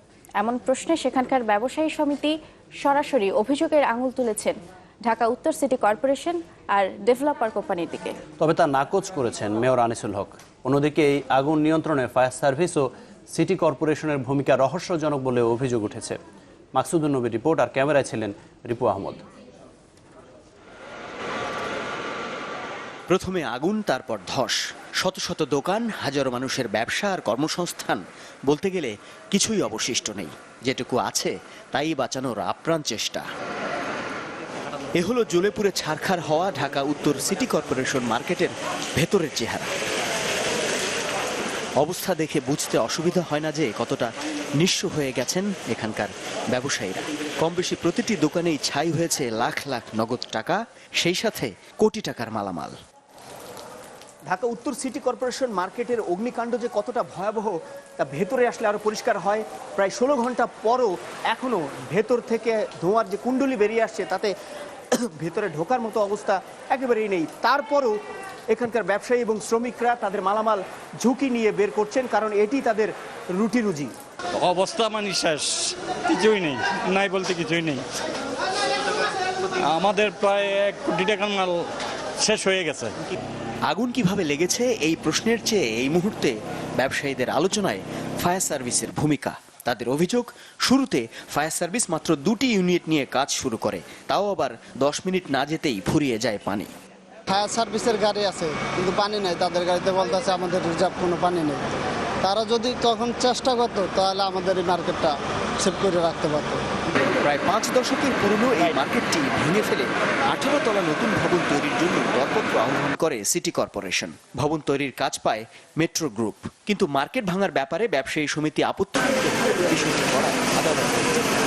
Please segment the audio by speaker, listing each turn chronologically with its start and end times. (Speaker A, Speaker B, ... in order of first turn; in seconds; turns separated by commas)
Speaker A: 0.4-8.2, Speaker B: 8.4-16.2, Speaker B: 16.7-19.2, Speaker C: 23.1-33.2, Speaker C: 35.0-39.7, Speaker C: 41.8-44.1, Speaker C: 44.6-52.7, Speaker C: 54.3-64.3, Speaker C: 65.0-68.0, Speaker C: 68.5-73.9, Speaker D: 74.3-77.8, Speaker D: 79.6-81.7, Speaker D: 82.2-83.0, Speaker C: 83.7-96.7, Speaker E: 97.3-101.7, Speaker E: 102.2-106.6, Speaker C: 107.2-121.3